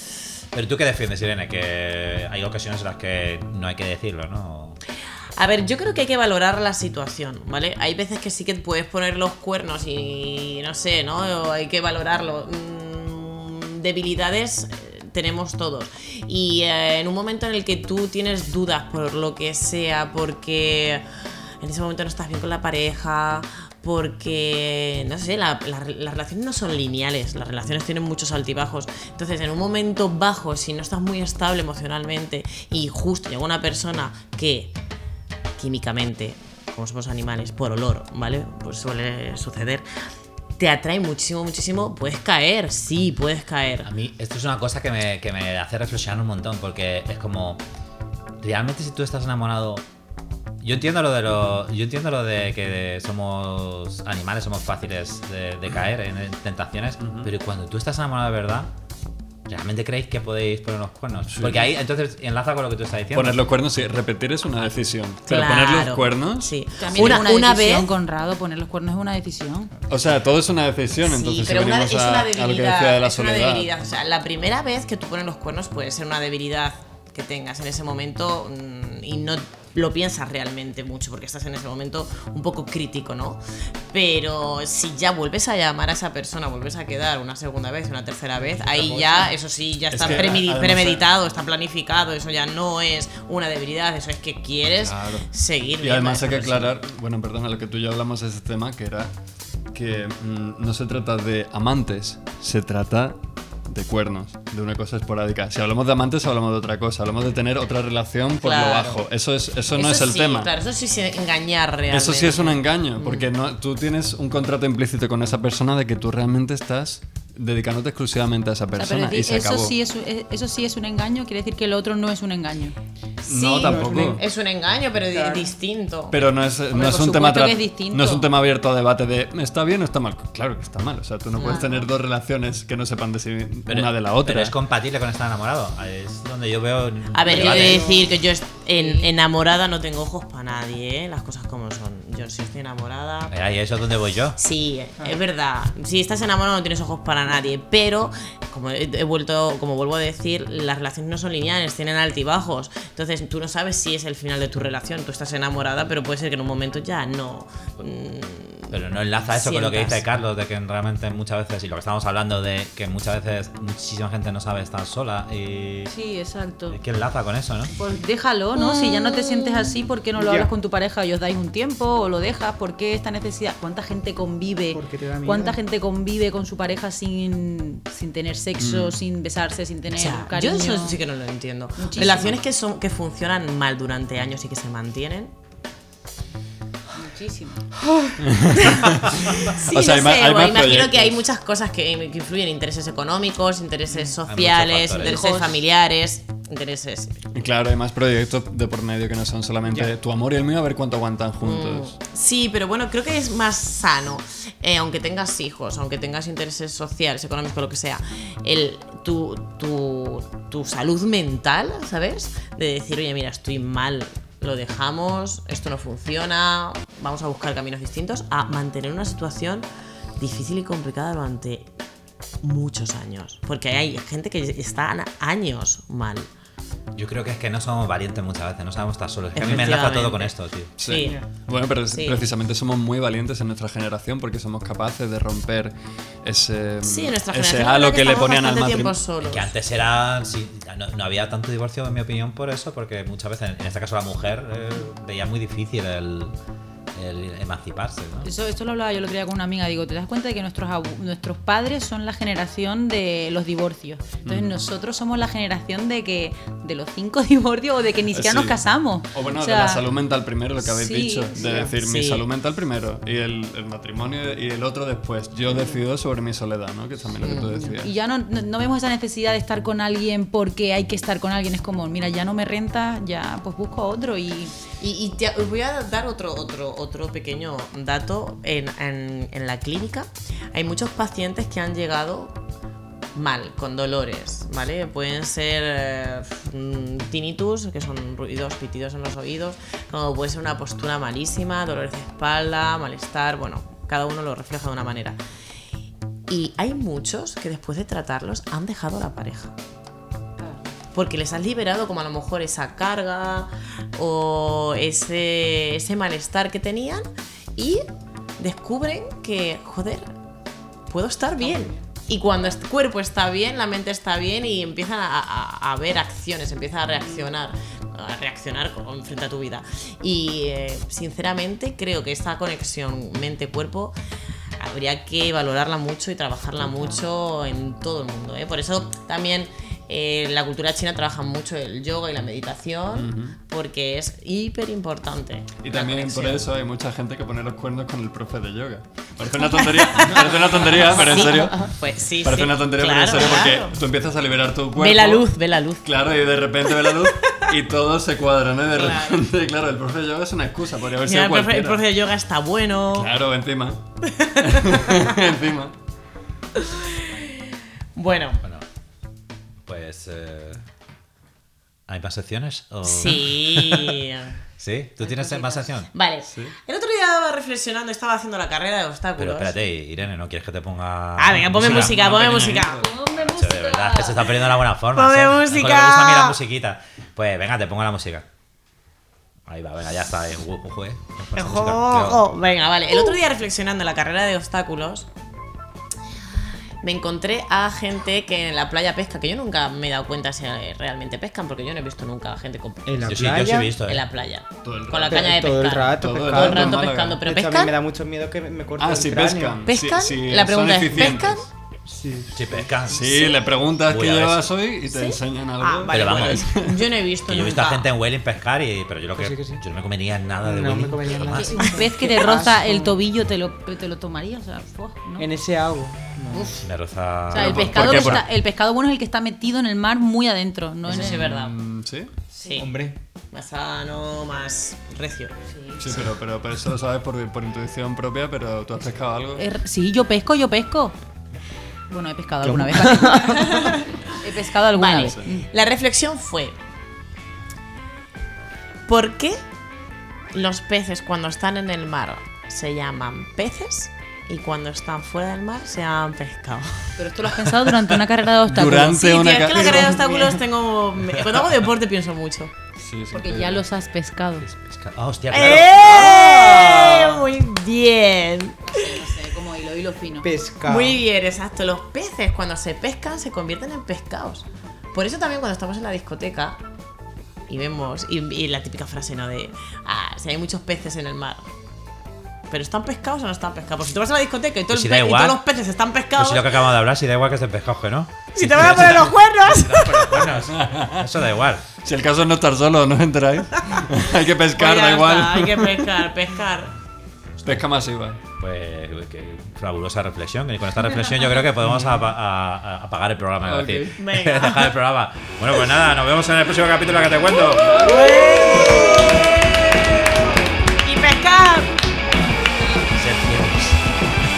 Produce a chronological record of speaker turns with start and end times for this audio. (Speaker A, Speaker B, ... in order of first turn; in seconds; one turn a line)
Speaker A: 0.5-4.8
Speaker B: 5.4-21.1
Speaker B: 21.6-34.7
Speaker B: 35.6-39.9
Speaker B: 40.6-43.9
Speaker A: 43.8-47.6
Speaker A: 48.4-49.9
Speaker A: 50.6-58.7
Speaker C: 57.0-57.3
Speaker A: 59.5-63.5
Speaker C: 61.3-61.7
Speaker C: 63.1-66.6
Speaker B: 65.3-67.9
Speaker D: 66.8-69.7
Speaker A: 67.0-67.2
Speaker C: 69.9-73.7
Speaker B: 71.0-96.8
Speaker E: 88.4-89.3
Speaker C: 89.9-91.1
Speaker C: 94.7-95.3
Speaker C: 95.8-99.2
Speaker C: 99.7-110.5
Speaker B: 108.4-109.0
Speaker B: 109.7-113.3
Speaker C: 111.9-119.8
Speaker D: 118.8-122.8
Speaker C: 123.2-124.2
Speaker B: 123.3-126.2
Speaker E: 123.6-124.2
Speaker E: 125.0-125.5
Speaker C: 126.1-134.6
Speaker D: 126.7-128.3
Speaker B: 131.4-131.7
Speaker A: 133.7-138.0
Speaker B: 137.1-143.4
Speaker E: 137.2-138.2
Speaker D: 138.7-139.1
Speaker A: 143.3-144.4
Speaker B: 144.4-160.0
Speaker A: 158.7-165.9
Speaker D: 165.9-166.8
Speaker A: 166.7-167.7
Speaker D: 167.8-181.0
Speaker B: 168.6-169.7
Speaker E: 170.2-170.5
Speaker E: 174.7-175.6
Speaker C: 178.6-179.0
Speaker B: 180.0-185.3
Speaker D: 181.8-182.4
Speaker D: 186.9-187.6
Speaker B: 187.9-197.2
Speaker C: 188.2-191.2
Speaker A: 194.2-195.2
Speaker D: 195.0-195.6
Speaker C: 197.3-202.0
Speaker E: 199.7-199.9
Speaker B: 201.4-221.7
Speaker B: 222.4-226.3
Speaker A: 226.9-230.7
Speaker B: 229.3-231.2
Speaker C: 229.4-229.7
Speaker C: 230.8-239.0
Speaker E: 231.0-231.2
Speaker B: 231.9-232.3
Speaker B: 236.8-239.5
Speaker A: 239.2-246.3
Speaker A: 246.9-248.3
Speaker D: 248.2-259.8
Speaker C: 254.2-254.6
Speaker C: 258.1-267.9
Speaker D: 260.6-261.4
Speaker E: 261.4-261.7
Speaker B: 261.8-262.3
Speaker B: 267.2-267.6
Speaker D: 267.6-274.5
Speaker B: 274.8-282.4
Speaker B: 283.1-295.2
Speaker B: 296.3-299.6
Speaker D: 300.4-300.6
Speaker B: 300.9-307.1
Speaker B: 307.6-307.9
Speaker B: 308.4-310.1
Speaker B: 310.9-323.9
Speaker E: 311.5-311.8
Speaker B: 324.6-336.5
Speaker D: 326.6-327.0
Speaker C: 332.9-333.4
Speaker C: 335.6-345.3
Speaker B: 339.4-343.8
Speaker B: 344.8-346.0
Speaker C: 345.8-351.8
Speaker B: 346.7-347.5
Speaker B: 348.7-349.2
Speaker B: 351.0-353.1
Speaker C: 352.9-353.9
Speaker B: 354.1-355.1
Speaker C: 354.4-355.8
Speaker B: 356.6-358.4
Speaker A: 359.7-360.6
Speaker A: 361.9-364.0
Speaker B: 362.8-364.4
Speaker A: 364.6-365.9
Speaker D: 365.0-365.7
Speaker B: 365.9-369.6
Speaker C: 366.2-366.6
Speaker A: 369.2-372.5
Speaker B: 371.2-372.8
Speaker C: 371.4-372.9
Speaker D: 372.6-374.4
Speaker A: 373.2-378.3
Speaker B: 374.9-376.4
Speaker A: 379.5-382.2
Speaker B: 381.4-385.1
Speaker B: 386.8-393.3
Speaker E: 392.9-393.8
Speaker A: 393.1-394.0
Speaker B: 393.9-397.8
Speaker C: 394.6-397.2
Speaker E: 395.1-399.6
Speaker C: 398.8-401.5
Speaker B: 399.7-401.5
Speaker E: 401.9-402.9
Speaker A: 402.3-403.2
Speaker C: 402.9-406.9
Speaker B: 402.9-403.4
Speaker A: 403.8-404.5
Speaker B: 404.9-407.9
Speaker A: 405.9-406.4
Speaker A: 407.3-411.8
Speaker E: 409.2-409.6
Speaker E: 410.4-413.0
Speaker D: 411.4-415.3
Speaker E: 415.2-416.6
Speaker B: 416.3-416.6
Speaker A: 416.6-418.2
Speaker D: 417.3-421.3
Speaker C: 417.4-418.3
Speaker B: 420.9-421.6
Speaker C: 420.9-422.1
Speaker D: 422.3-422.6
Speaker B: 422.4-422.7
Speaker E: 422.6-423.0
Speaker B: 423.3-425.4
Speaker D: 425.5-425.8
Speaker C: 425.8-429.5
Speaker D: 429.4-430.9
Speaker D: 431.9-435.4
Speaker E: 432.5-433.5
Speaker B: 433.1-433.9
Speaker B: 434.7-436.6
Speaker C: 435.0-435.3
Speaker B: 438.9-439.4
Speaker B: 440.3-447.3
Speaker D: 447.0-449.4
Speaker C: 448.4-449.9
Speaker B: 448.9-452.5
Speaker E: 449.9-450.4
Speaker C: 452.8-453.6
Speaker D: 453.1-454.5
Speaker A: 454.4-455.8
Speaker B: 455.3-459.0
Speaker E: 455.7-457.3
Speaker D: 458.7-460.3
Speaker E: 460.2-461.1
Speaker B: 460.6-466.6
Speaker B: 467.5-471.5
Speaker B: 472.5-476.7
Speaker A: 474.7-475.4
Speaker A: 476.2-481.7
Speaker B: 478.4-480.3
Speaker C: 480.4-481.1
Speaker C: 481.8-485.8
Speaker B: 483.6-483.9
Speaker B: 484.5-486.7
Speaker C: 487.4-488.2
Speaker A: 488.4-498.0
Speaker C: 491.6-491.9
Speaker C: 493.4-494.0
Speaker B: 494.0-494.7
Speaker B: 497.5-500.3
Speaker B: 500.8-501.8
Speaker A: 502.9-503.8